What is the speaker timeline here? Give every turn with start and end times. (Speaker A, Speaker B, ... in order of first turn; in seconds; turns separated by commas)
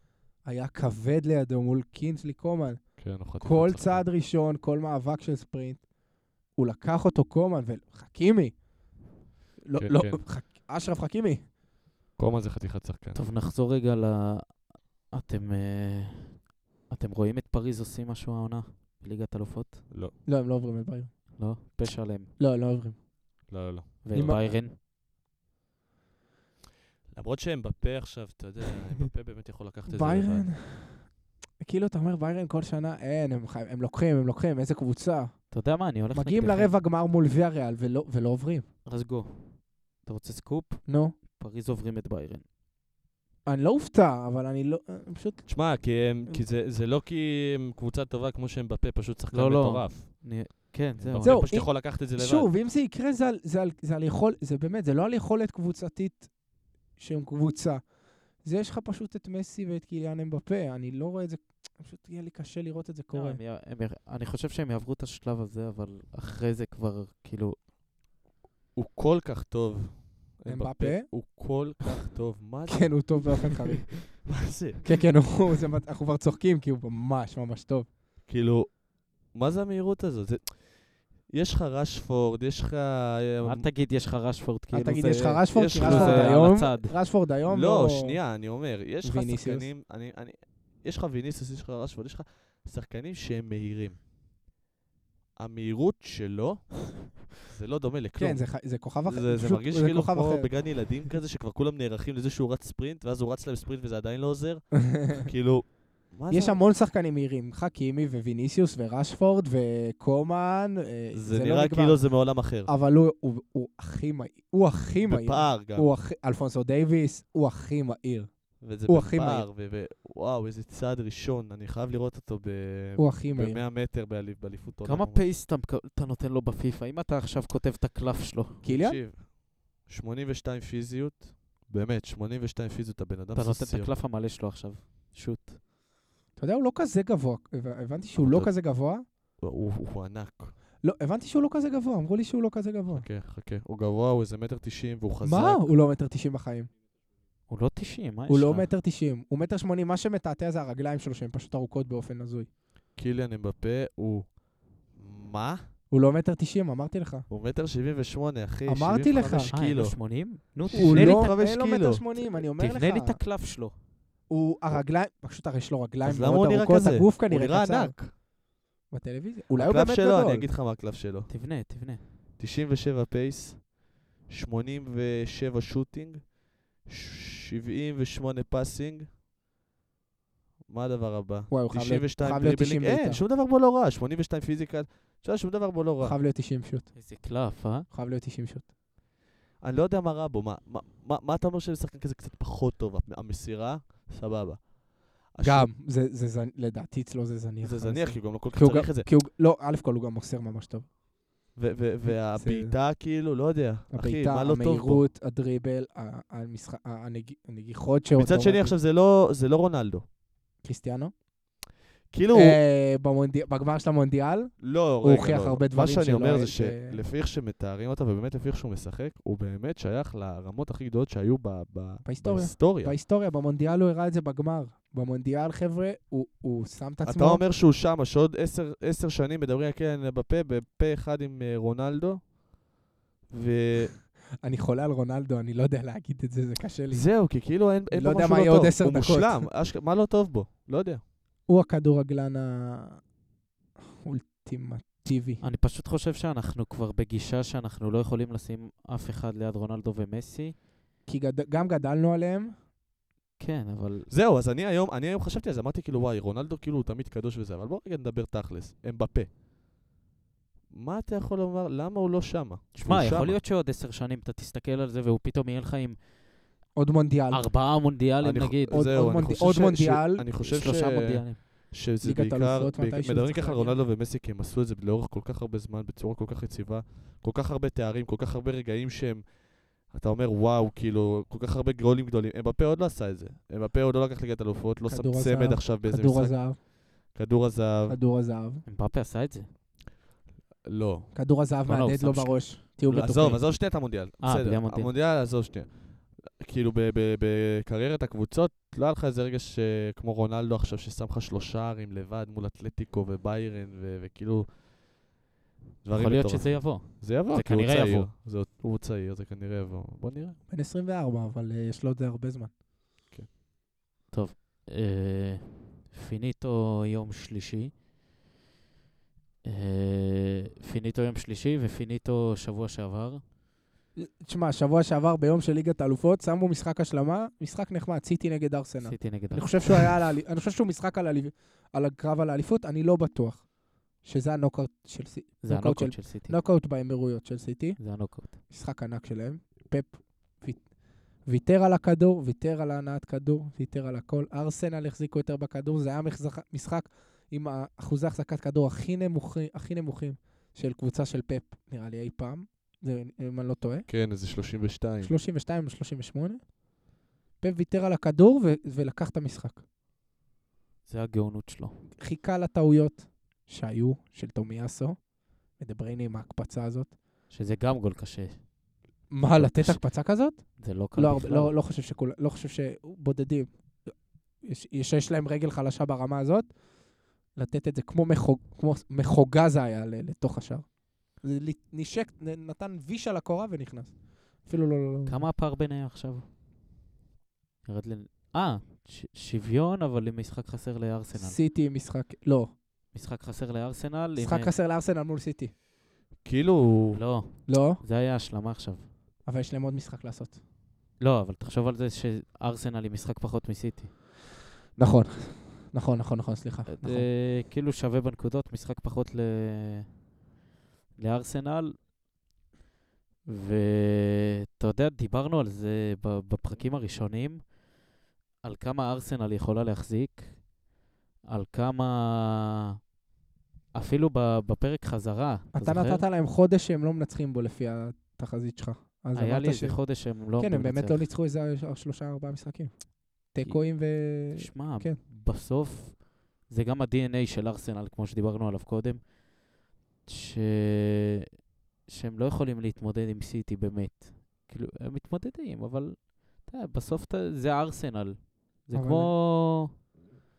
Speaker A: 0.4-5.9, Speaker B: 3.0-4.0, Speaker A: 6.5-8.6, Speaker A: 9.6-11.4, Speaker B: 9.8-10.2, Speaker B: 12.2-13.2, Speaker C: 13.1-19.9, Speaker B: 19.9-20.1, Speaker A: 20.2-21.4, Speaker C: 21.4-22.4, Speaker A: 22.4-23.0, Speaker B: 23.5-24.0, Speaker C: 24.0-24.8, Speaker A: 24.1-24.6, Speaker B: 27.1-30.5, Speaker A: 29.9-35.6, Speaker C: 35.5-36.7, Speaker A: 36.1-38.7, Speaker C: 38.9-42.5, Speaker A: 40.9-41.2, Speaker A: 43.4-46.4, Speaker B: 45.5-50.4, Speaker C: 49.3-51.5, Speaker B: 51.0-52.5, Speaker A: 51.2-56.4, Speaker A: 57.0-63.4, Speaker C: 63.1-67.5, Speaker B: 68.7-73.5, Speaker A: 70.5-71.6, Speaker A: 72.7-74.2, Speaker B: 74.2-74.8, Speaker A: 74.8-77.9, Speaker B: 78.3-83.7, Speaker C: 83.4-87.0, Speaker A: 84.7-88.2, Speaker B: 85.5-86.6, Speaker B: 87.5-94.0, Speaker A: 89.0-89.7, Speaker B: 95.3-98.5, Speaker A: 98.2-100.9, Speaker B: 99.0-106.6, Speaker A: 105.0-105.2, Speaker A: 106.3-119.5, Speaker B: 111.1-112.7, Speaker B: 115.0-115.9, Speaker B: 118.6-125.3, Speaker A: 123.0-123.6, Speaker C: 124.8-128.6, Speaker A: 128.6-129.0, Speaker B: 128.6-133.9, Speaker C: 133.3-135.6, Speaker A: 136.4-139.1, Speaker B: 138.2-138.5, Speaker B: 139.4-140.5, Speaker A: 140.8-143.1, Speaker B: 142.9-145.7, Speaker A: 145.2-146.7, Speaker C: 147.5-148.7, Speaker A: 148.3-152.5, Speaker B: 152.9-155.6, Speaker A: 155.9-157.3, Speaker B: 157.3-160.0, Speaker A: 158.7-159.5, Speaker C: 159.5-161.3, Speaker B: 160.7-162.1, Speaker A: 160.7-163.2, Speaker C: 162.6-163.8, Speaker A: 164.3-168.2, Speaker B: 166.0-168.1, Speaker A: 168.9-170.5, Speaker B: 169.5-171.3, Speaker C: 171.3-172.1, Speaker B: 172.4-179.1, Speaker B: 180.7-186.2, Speaker A: 181.5-183.2, Speaker A: 186.0-187.0, Speaker C: 186.9-187.9, Speaker A: 187.9-188.7, Speaker B: 189.6-195.7, Speaker A: 195.4-200.9, Speaker B: 197.6-199.1, Speaker B: 201.5-205.0, Speaker A: 202.0-202.8, Speaker A: 203.9-208.7, Speaker B: 208.1-210.0, Speaker A: 210.6-211.1, Speaker B: 212.1-212.6, Speaker A: 212.3-217.0, Speaker B: 214.6-222.9, Speaker A: 222.0-227.4, Speaker B: 227.0-232.3, Speaker B: 233.3-234.0, Speaker A: 234.4-239.5, Speaker B: 236.9-241.0, Speaker A: 241.4-243.0, Speaker A: 244.0-245.4, Speaker C: 245.4-250.6, Speaker A: 251.1-252.6, Speaker C: 253.4-254.1, Speaker B: 254.1-259.3, Speaker B: 260.7-263.4, Speaker C: 262.7-266.1, Speaker A: 266.8-267.5, Speaker C: 267.3-268.8, Speaker B: 268.2-288.0, Speaker A: 268.7-270.3, Speaker C: 270.4-271.4, Speaker A: 272.0-273.8, Speaker A: 284.9-286.6, Speaker A: 287.9-288.6, Speaker C: 288.6-289.5, Speaker B: 290.6-291.1, Speaker A: 291.1-293.4, Speaker C: 291.6-292.5, Speaker B: 292.9-305.0, Speaker C: 294.2-294.9, Speaker B: 305.8-310.4, Speaker C: 305.9-308.1, Speaker A: 310.5-312.5, Speaker C: 314.1-317.7, Speaker C: 319.4-323.2, Speaker A: 323.9-353.9, Speaker C: 328.8-329.9, Speaker C: 335.4-336.4, Speaker C: 337.8-338.4, Speaker B: 353.9-355.1, Speaker A: 355.0-356.5, Speaker A: 357.4-359.6, Speaker C: 360.9-361.8, Speaker A: 362.0-367.0, Speaker C: 367.3-368.5, Speaker A: 369.1-376.6, Speaker C: 369.2-369.8, Speaker C: 370.6-371.5, Speaker A: 377.3-385.2, Speaker C: 385.1-386.3, Speaker C: 387.6-391.4, Speaker A: 391.1-392.5, Speaker C: 392.9-394.5, Speaker A: 394.2-395.5, Speaker B: 396.2-397.0, Speaker C: 396.9-398.9, Speaker A: 397.5-397.8, Speaker A: 399.2-400.4, Speaker C: 401.0-403.9, Speaker A: 404.8-407.1, Speaker C: 406.7-410.0, Speaker C: 410.9-411.8, Speaker C: 413.2-417.6, Speaker C: 418.4-420.5, Speaker C: 421.3-422.8, Speaker C: 423.7-426.0, Speaker A: 425.5-435.0, Speaker C: 429.1-431.1, Speaker C: 433.4-433.8, Speaker C: 434.3-439.1, Speaker C: 440.1-441.2, Speaker C: 441.9-449.7, Speaker A: 448.7-449.1